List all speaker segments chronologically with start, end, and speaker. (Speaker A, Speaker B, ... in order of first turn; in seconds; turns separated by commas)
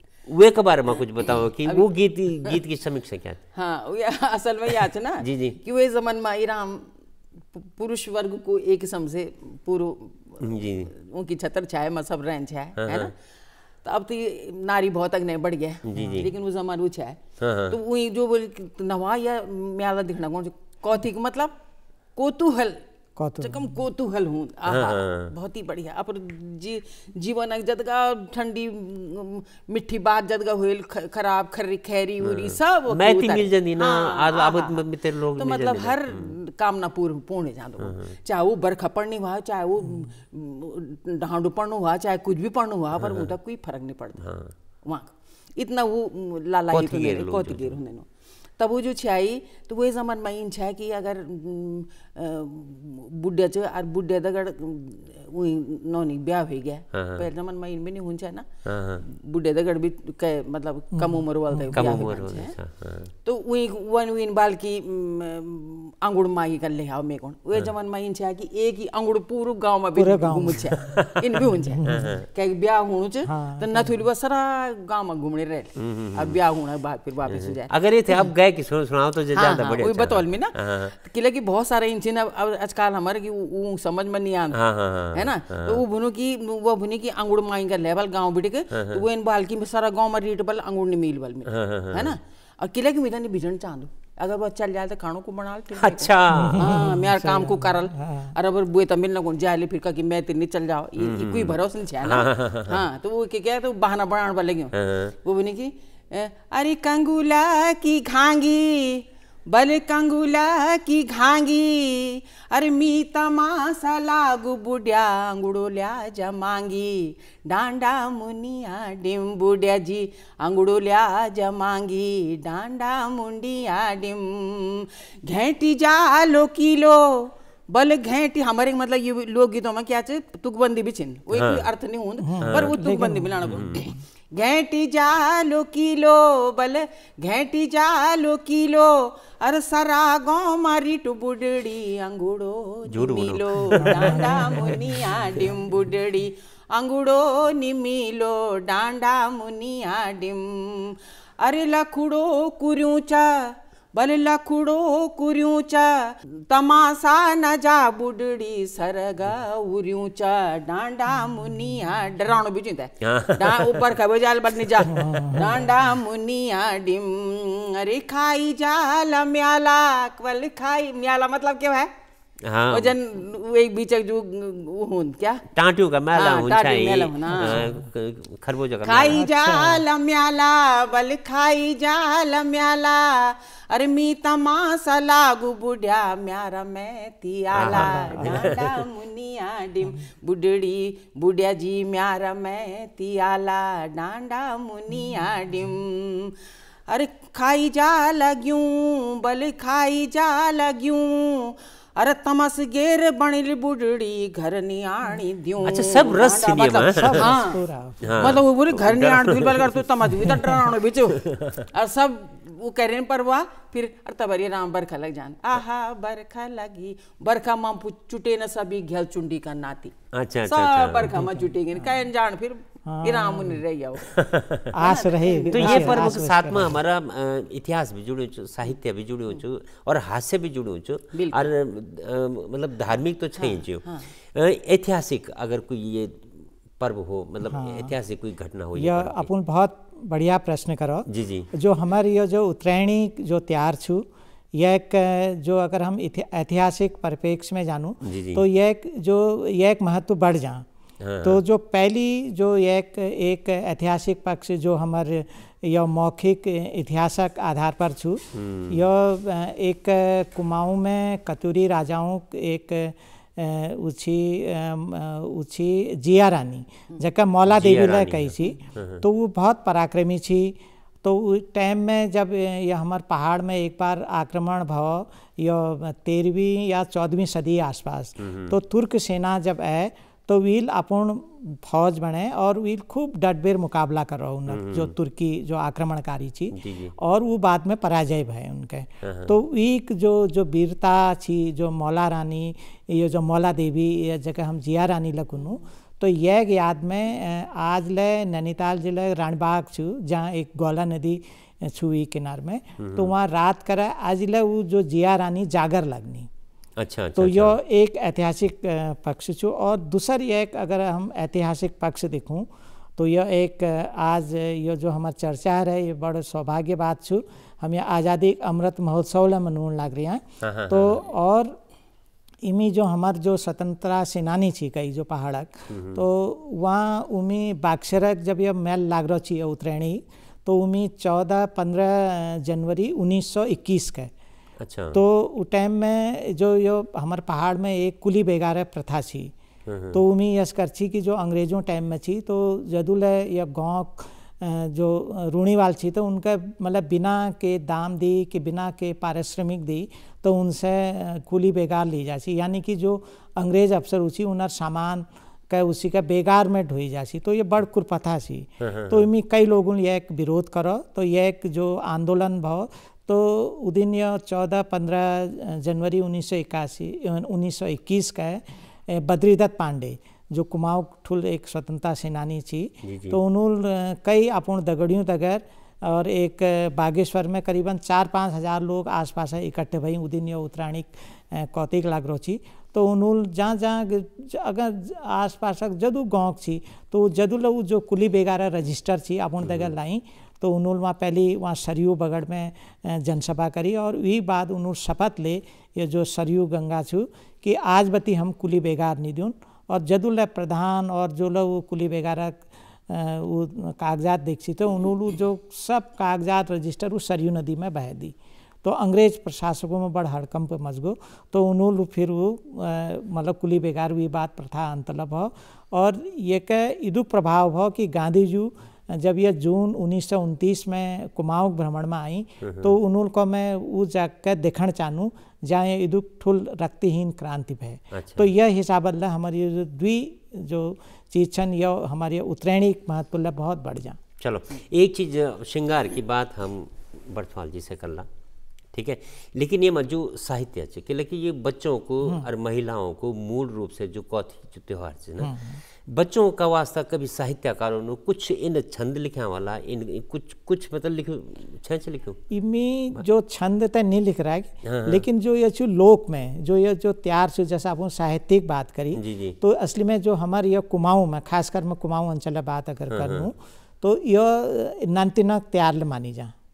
Speaker A: 0.2-3.4, Speaker B: 3.5-6.9, Speaker A: 5.2-5.6, Speaker B: 7.5-13.1, Speaker A: 10.4-10.9, Speaker A: 12.8-13.1, Speaker B: 13.8-21.6, Speaker A: 15.8-16.3, Speaker C: 15.9-16.2, Speaker A: 17.4-17.8, Speaker B: 22.1-22.8, Speaker C: 23.2-23.8, Speaker B: 23.4-44.2, Speaker A: 24.7-25.3, Speaker A: 32.2-36.4, Speaker A: 37.8-38.1, Speaker A: 43.0-43.3, Speaker A: 44.2-44.5, Speaker B: 44.8-48.1, Speaker A: 46.7-47.8, Speaker B: 48.6-58.5, Speaker A: 56.9-57.2, Speaker A: 58.6-59.0, Speaker B: 59.0-62.5, Speaker C: 61.0-61.8, Speaker A: 61.7-63.1, Speaker B: 63.2-78.3, Speaker C: 70.0-72.1, Speaker A: 70.8-71.1, Speaker A: 71.8-72.3, Speaker C: 73.2-73.9, Speaker A: 75.8-76.4, Speaker A: 77.3-80.9, Speaker B: 79.3-84.6, Speaker A: 84.5-85.8, Speaker B: 85.1-171.9, Speaker A: 88.7-89.0, Speaker A: 91.5-92.2, Speaker A: 95.8-96.9, Speaker C: 96.3-98.3, Speaker A: 101.0-102.8, Speaker A: 104.7-105.1, Speaker A: 131.3-131.7, Speaker C: 132.2-133.7, Speaker A: 132.4-132.7, Speaker A: 133.4-133.8, Speaker A: 142.9-144.8, Speaker C: 143.7-145.5, Speaker A: 163.0-163.9, Speaker A: 164.6-165.2, Speaker C: 164.9-165.7, Speaker A: 172.4-172.9, Speaker B: 172.7-175.5, Speaker A: 175.5-179.2, Speaker B: 176.1-177.7, Speaker C: 177.3-177.8, Speaker B: 178.8-196.3, Speaker C: 179.1-179.8, Speaker A: 187.5-188.7, Speaker C: 187.7-188.7, Speaker B: 196.9-219.9, Speaker A: 205.6-207.4, Speaker C: 206.9-208.4, Speaker A: 208.0-210.3, Speaker C: 210.2-210.6, Speaker A: 211.1-211.7, Speaker A: 220.1-221.2, Speaker B: 220.4-224.2, Speaker C: 221.0-222.0, Speaker C: 222.8-223.6, Speaker A: 224.0-224.8, Speaker C: 224.7-226.8, Speaker B: 224.8-226.3, Speaker A: 225.5-239.3, Speaker B: 231.1-231.5, Speaker B: 233.4-234.1, Speaker C: 237.4-237.9, Speaker C: 238.8-250.7, Speaker A: 241.1-241.5, Speaker A: 248.0-248.4, Speaker A: 251.0-251.4, Speaker C: 251.2-306.3, Speaker A: 258.3-258.9, Speaker A: 267.5-269.0, Speaker A: 278.2-278.6, Speaker A: 284.5-284.9, Speaker A: 286.5-286.9, Speaker A: 289.0-289.4, Speaker A: 302.8-303.1, Speaker A: 306.8-307.6, Speaker C: 307.2-321.5, Speaker A: 320.4-321.1, Speaker C: 322.4-334.1, Speaker A: 325.7-326.1, Speaker A: 334.6-335.0, Speaker C: 334.9-339.3, Speaker A: 339.6-340.0, Speaker C: 339.9-434.0, Speaker A: 358.6-359.1, Speaker A: 372.8-373.2, Speaker A: 389.4-389.7, Speaker A: 422.4-422.8, Speaker A: 427.9-428.3, Speaker A: 434.2-438.1, Speaker A: 438.7-452.2, Speaker C: 445.2-445.6, Speaker C: 452.3-466.3, Speaker A: 454.6-455.0, Speaker A: 458.9-459.4, Speaker A: 462.9-463.3